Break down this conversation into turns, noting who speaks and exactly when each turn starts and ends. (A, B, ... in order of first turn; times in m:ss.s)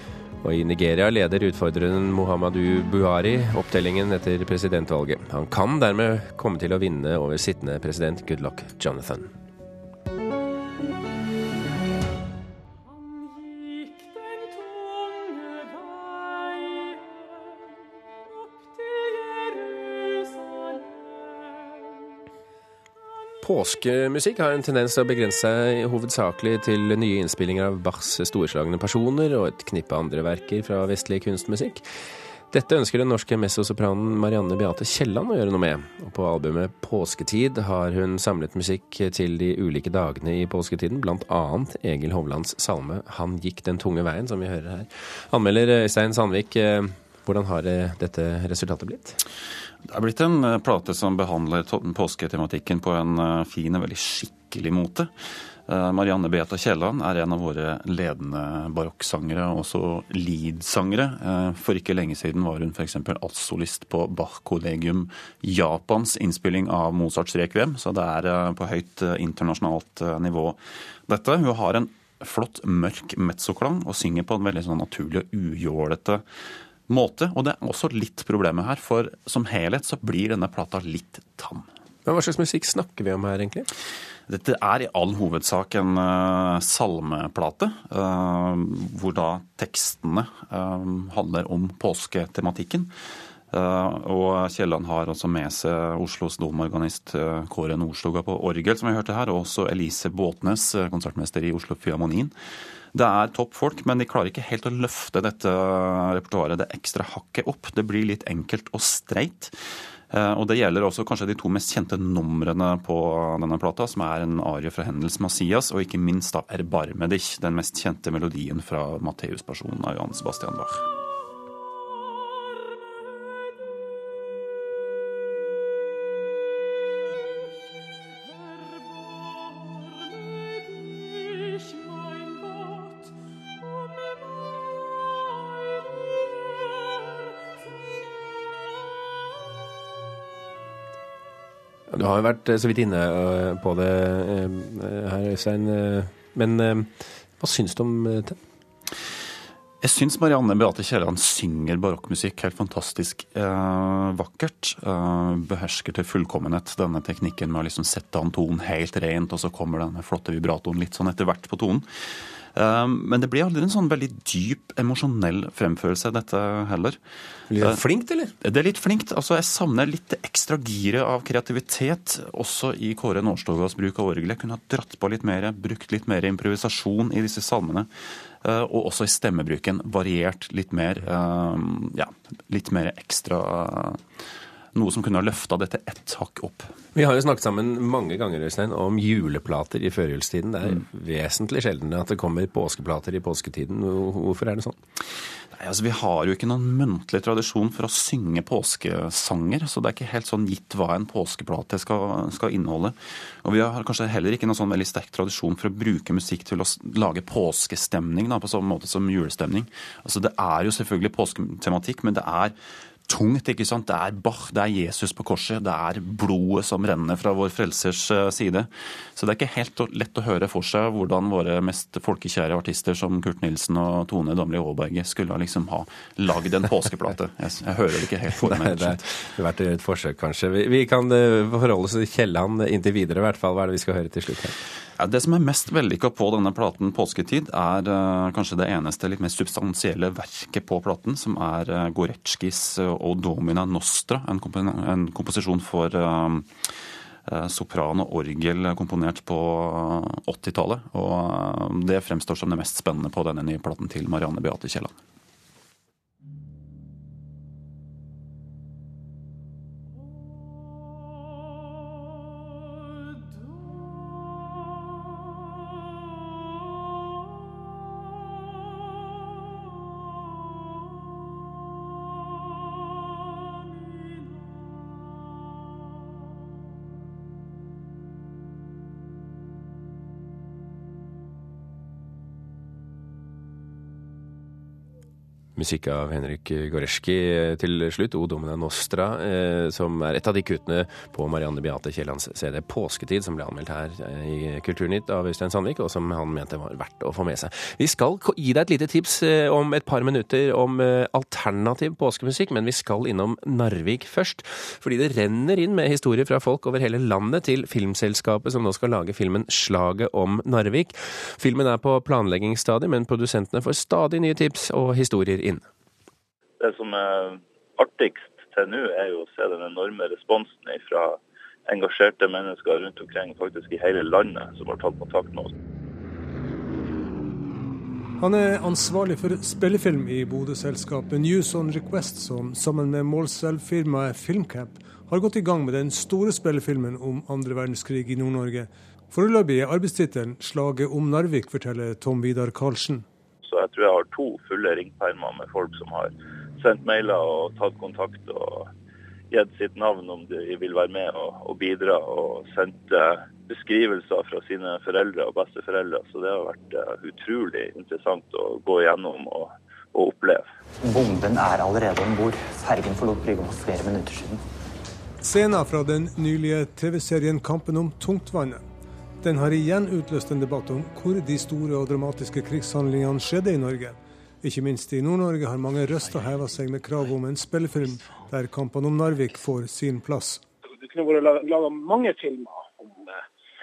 0:00.4-0:09.3 A
0:23.4-0:31.8 A
0:32.5-0:49.2 A
0:49.9-0:55.1 B
0:55.7-1:16.2 B
1:16.9-1:21.7 B
1:22.0-1:23.7 A
1:24.3-1:32.9 B
1:33.5-1:42.3 B
1:42.9-1:49.6 B
1:50.1-2:00.8 B
2:21.9-2:28.4 A
2:29.8-2:41.9 B
2:42.5-2:47.0 B
2:47.5-2:48.3 A
2:48.4-2:57.9 B
2:58.4-3:04.1 B
3:04.7-3:06.8 B
3:07.0-3:14.8 A
3:15.5-3:32.6 B
3:33.1-3:49.1 B
3:48.4-3:54.6 A
3:55.0-4:06.7 B
4:07.3-4:15.0 B
4:45.6-5:15.7 A
5:16.6-5:25.5 C
5:28.2-5:43.1 D
5:43.4-5:48.7 C
5:49.3-6:00.5 C
6:00.8-6:04.4 E
6:05.2-6:08.6 D
6:09.2-6:20.4 D
6:20.7-6:23.2 F